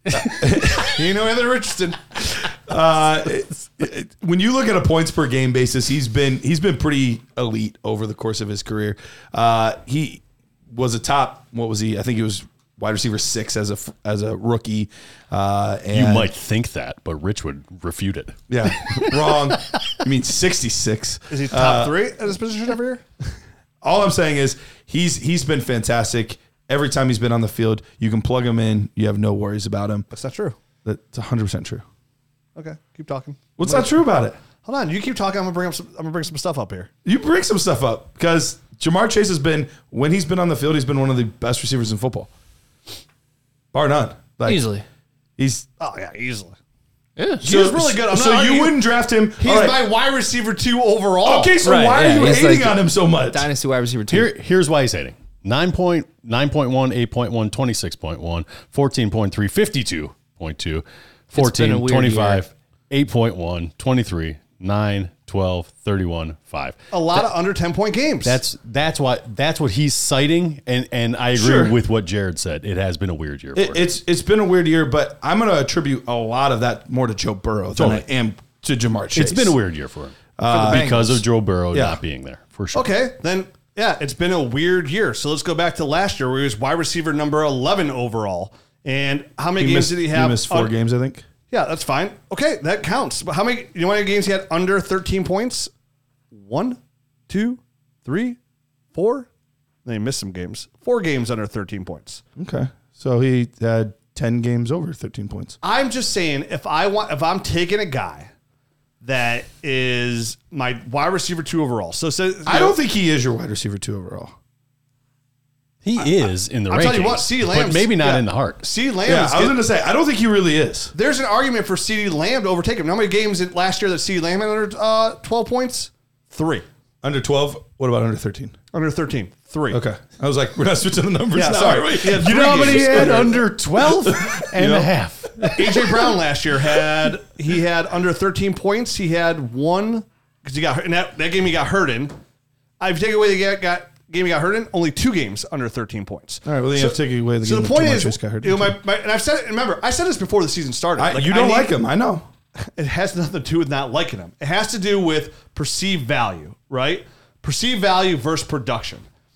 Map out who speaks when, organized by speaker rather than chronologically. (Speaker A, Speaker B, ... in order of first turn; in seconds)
Speaker A: 0.1-0.9, 2.7-16.3, 18.5-22.0, 23.8-30.1, 30.9-31.9, 33.6-34.4, 37.0-42.3, 43.7-44.7, 45.4-45.7, 47.4-49.8, 51.2-53.5, 71.3-71.8, 73.6-79.6, 80.4-81.0, 81.7-82.0, 89.6-91.2, 102.4-105.6, 112.5-114.3, 119.1-120.9, 127.0-128.6, 129.7-136.1, 146.4-148.8, 151.0-152.3
Speaker B: 0.4-2.5, 21.3-23.0, 30.1-30.6, 32.6-34.0, 34.6-36.9, 45.8-46.5, 47.4-51.6, 66.9-68.4, 82.7-90.7, 91.5-95.7, 96.3-96.8, 97.3-98.4, 98.9-99.3, 99.8-102.2, 105.6-108.3, 109.0-112.8, 116.7-119.6, 120.9-126.7, 128.7-129.8, 131.3-133.4, 135.6-142.2, 142.8-151.7, 152.6-159.1
Speaker C: 15.9-20.0, 54.1-66.8, 68.2-73.9, 77.8-78.0, 79.2-82.9, 115.8-118.7, 132.1-135.9
Speaker D: 44.5-44.9, 47.2-47.4, 51.6-54.3, 61.3-62.5, 80.5-81.2